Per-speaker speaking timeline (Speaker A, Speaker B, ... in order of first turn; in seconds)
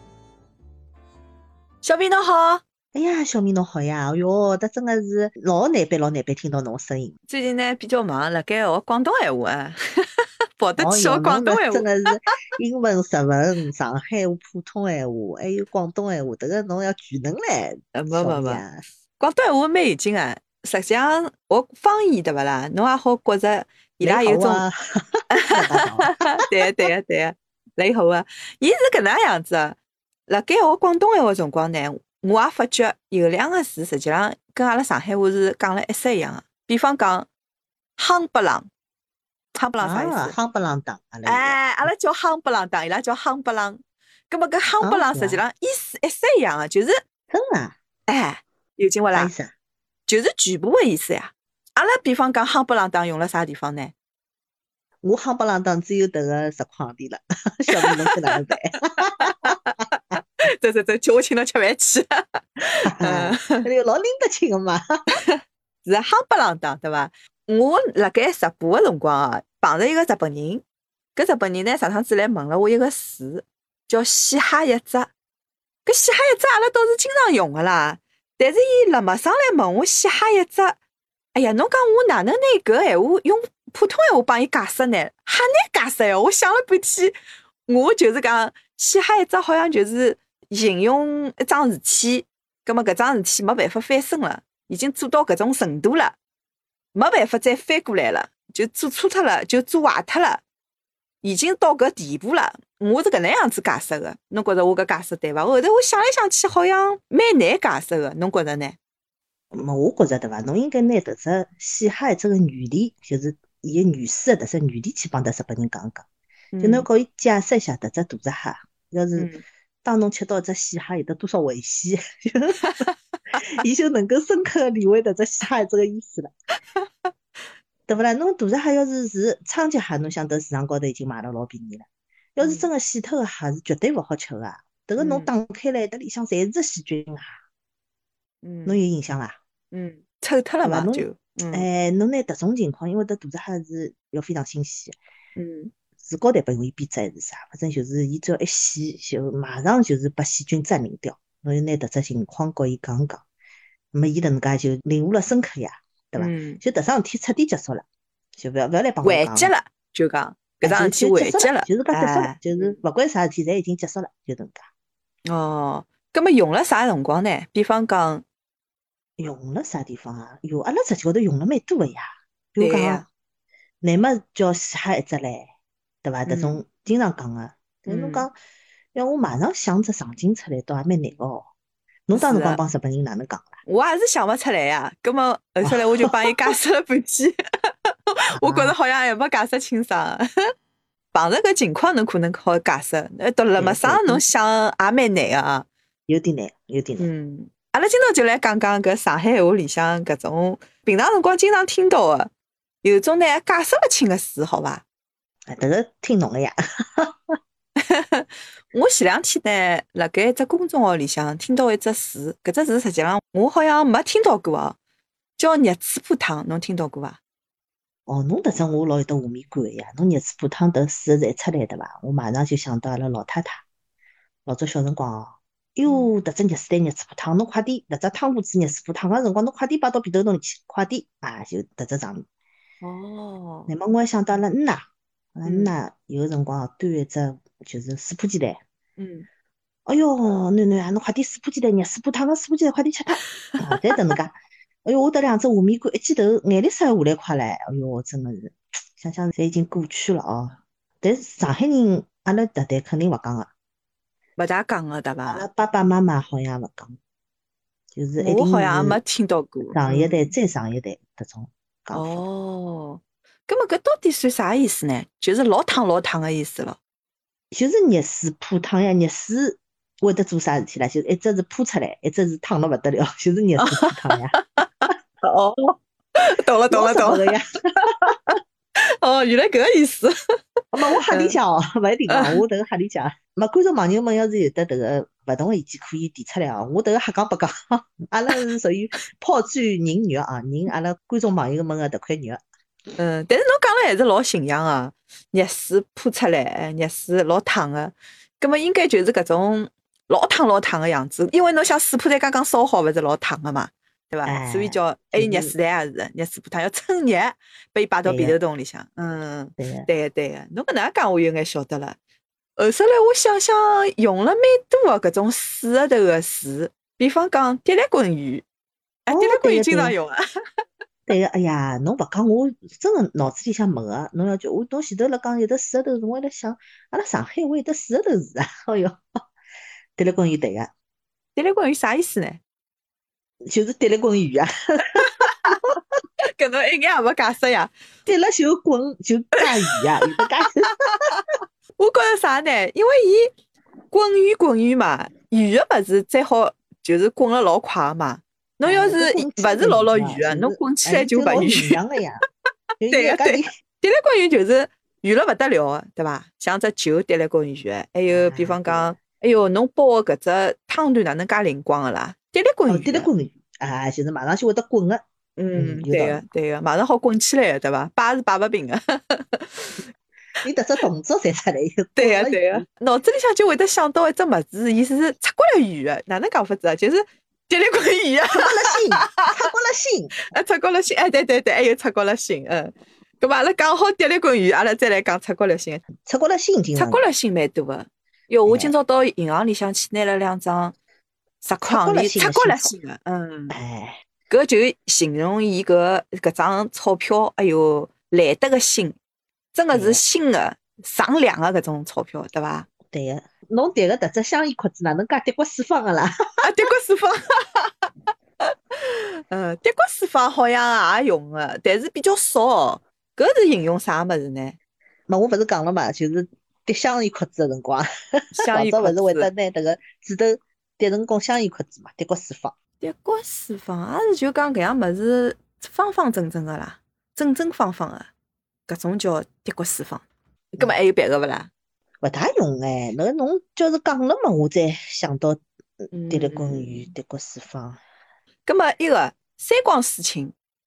Speaker A: 1.8-2.6, 7.3-12.2, 17.9-18.6, 19.2-24.7, 25.3-29.8, 30.3-37.3, 38.0-38.7, 39.5-40.4, 41.2-47.0, 48.1-49.3, 50.1-53.9, 57.7-58.5, 59.2-63.7, 65.2-70.6, 71.2-75.1, 75.8-80.8, 81.3-96.2, 96.9-100.4, 101.2-108.8, 116.5-116.9, 119.2-119.4, 122.6-123.4, 126.8-127.1, 132.4-132.7, 135.0-135.3, 138.4-138.8, 139.7-141.7, 145.4-145.7, 156.2-156.6, 159.0-162.8, 165.3-168.2, 172.6-173.1, 176.3-176.6, 177.9-178.3, 182.1-182.6, 183.7-187.4, 188.1-190.2, 191.1-195.7, 197.0-202.3, 202.8-204.8, 207.8-214.8, 215.4-217.2, 225.9-226.1, 232.8-233.7, 235.4-235.8, 239.0-239.3, 243.5-244.1, 254.4-255.5, 258.2-260.3, 261.9-266.8, 273.6-280.1, 281.1-281.4, 282.1-282.4, 293.0-312.0, 312.6-318.5, 319.1-320.2, 331.4-332.4, 335.0-335.6, 336.2-337.7, 340.9-341.2, 341.8-343.3, 343.9-351.8, 352.9-363.1, 365.4-369.8, 372.0-379.4, 380.3-385.8, 386.8-390.8, 391.4-393.5, 394.3-399.0, 399.5-402.7, 406.4-407.8, 408.4-414.6, 418.3-419.3, 422.8-428.1, 428.7-431.5, 435.9-436.9, 438.5-440.4
Speaker B: 2.9-7.1, 10.8-18.9, 24.0-26.2, 39.8-41.9, 44.8-45.4, 47.3-47.8, 49.1-49.5, 55.0-59.6, 62.9-64.8, 109.5-116.1, 116.6-122.8, 123.4-126.3, 127.9-137.3, 138.7-139.4, 140.6-145.0, 146.0-153.2, 153.9-157.8, 158.4-159.5, 160.6-164.7, 169.2-173.1, 173.8-175.5, 176.0-178.4, 178.9-181.5, 182.1-183.5, 185.6-186.5, 188.3-188.8, 193.6-194.2, 196.1-197.1, 205.5-207.2, 218.1-223.6, 224.5-232.3, 233.7-238.6, 239.9-253.5, 255.3-257.0, 257.9-259.0, 259.7-262.2, 267.5-274.4, 276.7-277.6, 280.7-292.4, 304.2-305.6, 308.1-308.4, 309.6-309.9, 319.1-319.9, 321.1-329.0, 330.0-330.7, 333.5-335.7, 338.1-340.9, 348.6-352.2, 352.8-353.5, 358.1-358.9, 362.7-365.0, 365.5-366.2, 370.4-372.6, 378.4-380.1, 386.0-387.0, 388.5-388.7, 391.6-392.7, 393.5-394.0, 399.7-400.0, 402.9-406.1, 415.1-422.5, 432.0-437.8